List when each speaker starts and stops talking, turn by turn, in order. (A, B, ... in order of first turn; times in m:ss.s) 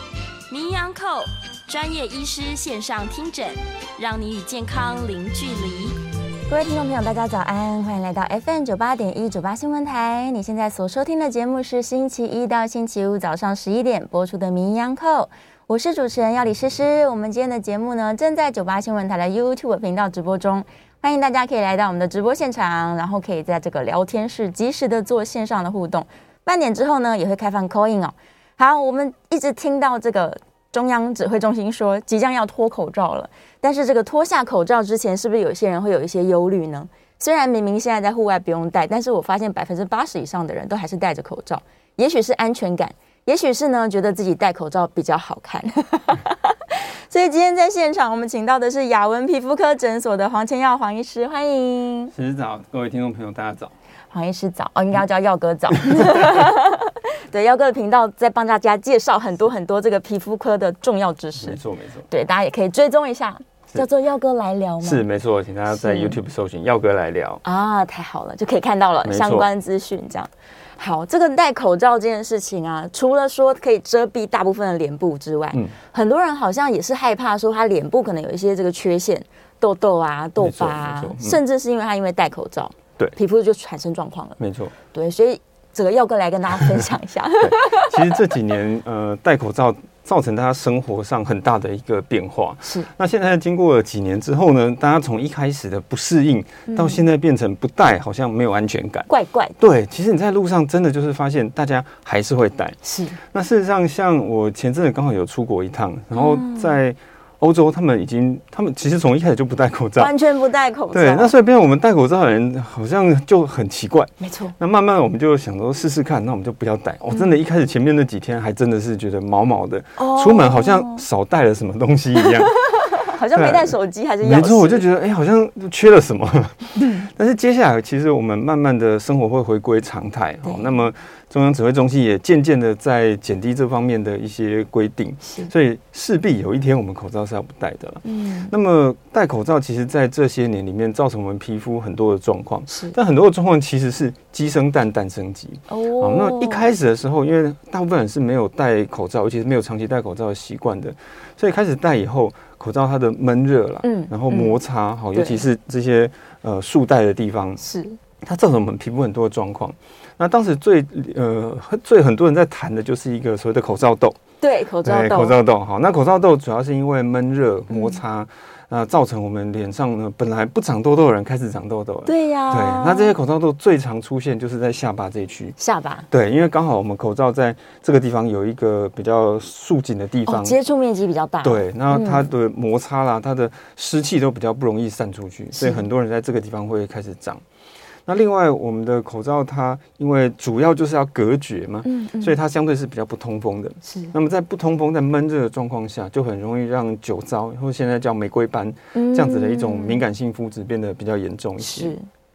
0:00.5-0:06.0 A
0:06.5-0:52.1 B
0:52.1-0:53.7 C
0:54.1-1:01.6 B
0:55.8-0:56.5 C
1:01.4-1:02.1 C
1:02.1-1:05.0 B
1:04.8-1:07.4 C
1:05.7-1:06.2 B
1:07.4-1:28.3 B
1:09.0-1:09.5 C
1:20.4-1:21.4 C
1:24.4-1:24.7 C
1:27.4-1:39.1 C
1:32.6-1:32.9 B
1:36.7-1:37.0 B
1:39.1-1:39.6 B
1:39.6-1:50.1 C
1:42.8-1:43.2 B
1:46.1-1:46.7 B
1:50.0-1:51.3 B
1:50.9-2:02.6 C
1:54.2-1:54.6 B
2:00.0-2:01.0 B
2:02.2-2:04.8 B
2:03.3-2:37.6 C
2:06.8-2:07.1 B
2:10.4-2:10.8 B
2:15.3-2:15.5 B
2:18.0-2:18.5 B
2:22.7-2:23.0 B
2:25.7-2:26.7 B
2:33.8-2:34.6 B
2:35.1-2:35.5 B
2:37.6-2:38.0 B
2:38.2-2:44.2 C
2:44.4-2:45.4 B
2:44.8-2:55.6 C
2:47.7-2:48.0 B
2:52.1-2:53.2 B
2:55.6-2:56.1 B
2:56.1-3:00.6 C
3:00.3-3:02.3 B
3:01.4-3:07.4 C
3:05.5-3:05.8 B
3:08.1-3:22.0 C
3:11.8-3:12.4 B
3:13.8-3:14.1 B
3:19.0-3:20.0 B
3:21.6-3:22.1 B